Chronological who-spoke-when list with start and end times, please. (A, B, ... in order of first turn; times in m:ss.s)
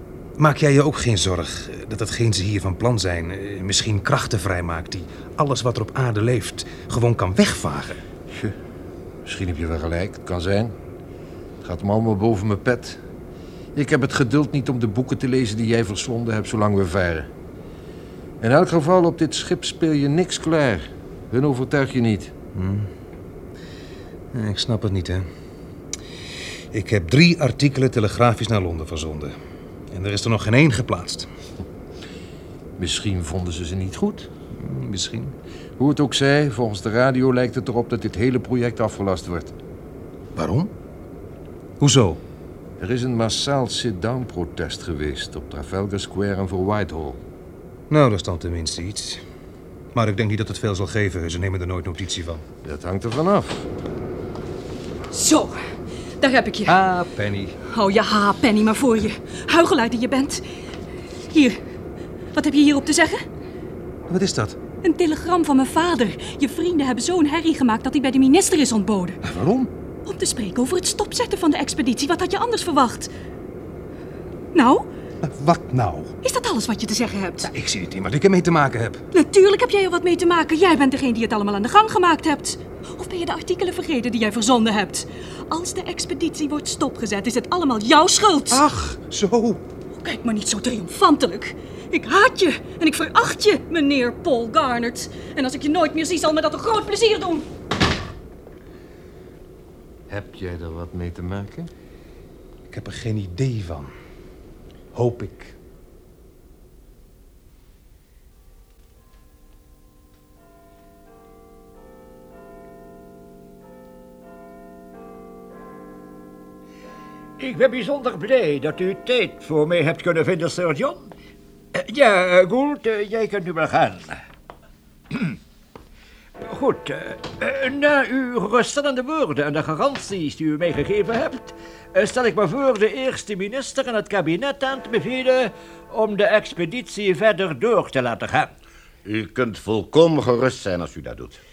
0:00.4-0:08.0 A
0:09.2-0:10.7 B
0:11.6-0:13.0 B
0:13.8-0:17.3 B
0:18.4-0:22.3 B
0:22.6-0:22.9 A
0:24.3-0:25.3 A
0:26.7-0:29.4 A
0:29.9-0:31.3 A
0:32.8-0:34.3 B
0:34.6-0:35.4 A
0:35.8-0:39.5 B
0:40.4-0:40.7 A
0:41.8-0:42.2 A
0:42.8-0:47.2 B
0:47.9-0:49.2 A
0:49.9-0:52.4 A
0:52.6-0:53.7 B
0:55.1-0:55.6 C
0:56.2-0:56.8 C
0:56.7-0:57.6 A
0:57.7-1:00.4 C
1:01.3-1:01.6 C
1:02.3-1:03.3 C
1:04.1-1:04.6 A
1:04.8-1:09.2 C
1:09.2-1:09.7 A
1:10.1-1:13.1 C
1:14.5-1:14.9 C
1:15.2-1:16.1 A
1:16.2-1:17.5 C
1:17.4-1:19.0 A
1:19.1-1:28.6 C
1:28.5-1:29.6 A
1:30.0-1:37.5 C
1:40.1-1:41.7 B
1:42.7-1:43.9 A
1:44.9-1:45.6 A
1:57.4-2:01.1 D
2:01.7-2:04.2 D
2:06.4-2:18.5 D
2:19.1-2:21.4 E